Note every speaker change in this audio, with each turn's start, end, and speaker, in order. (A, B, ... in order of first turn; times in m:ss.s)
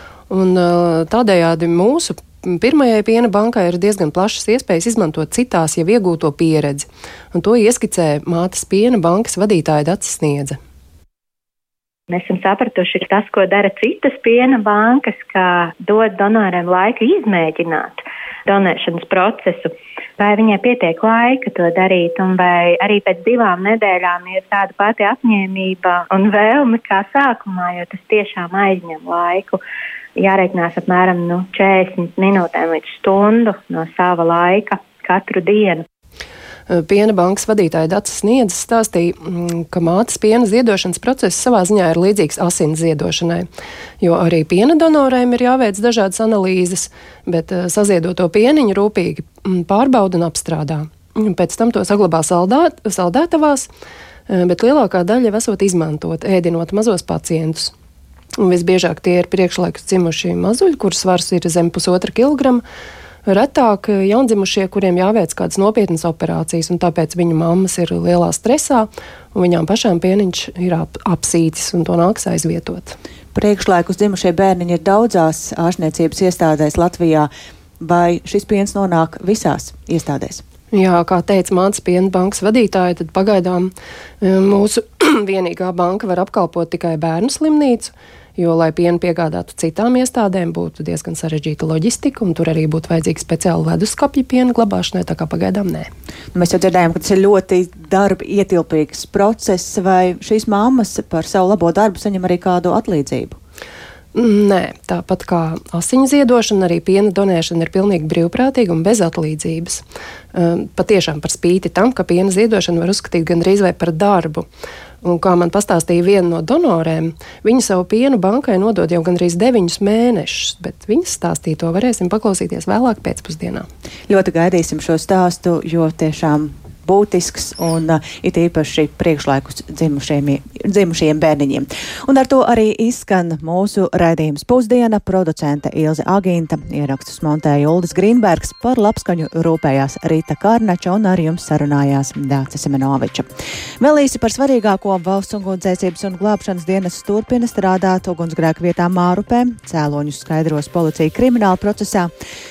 0:00.3-0:10.6 A
0:12.1-0:29.6 B
0:30.2-0:35.8 B
0:36.7-0:43.5 A
0:44.0-0:53.7 A
0:54.3-0:57.7 A
0:58.4-1:02.6 A
1:03.2-1:13.0 A
1:13.3-1:20.4 C
1:20.7-1:35.9 A
1:36.3-1:43.4 C
1:44.1-1:49.8 A
1:50.3-1:54.4 A
1:55.0-2:03.6 A
2:04.1-2:23.3 C
2:23.8-2:32.1 C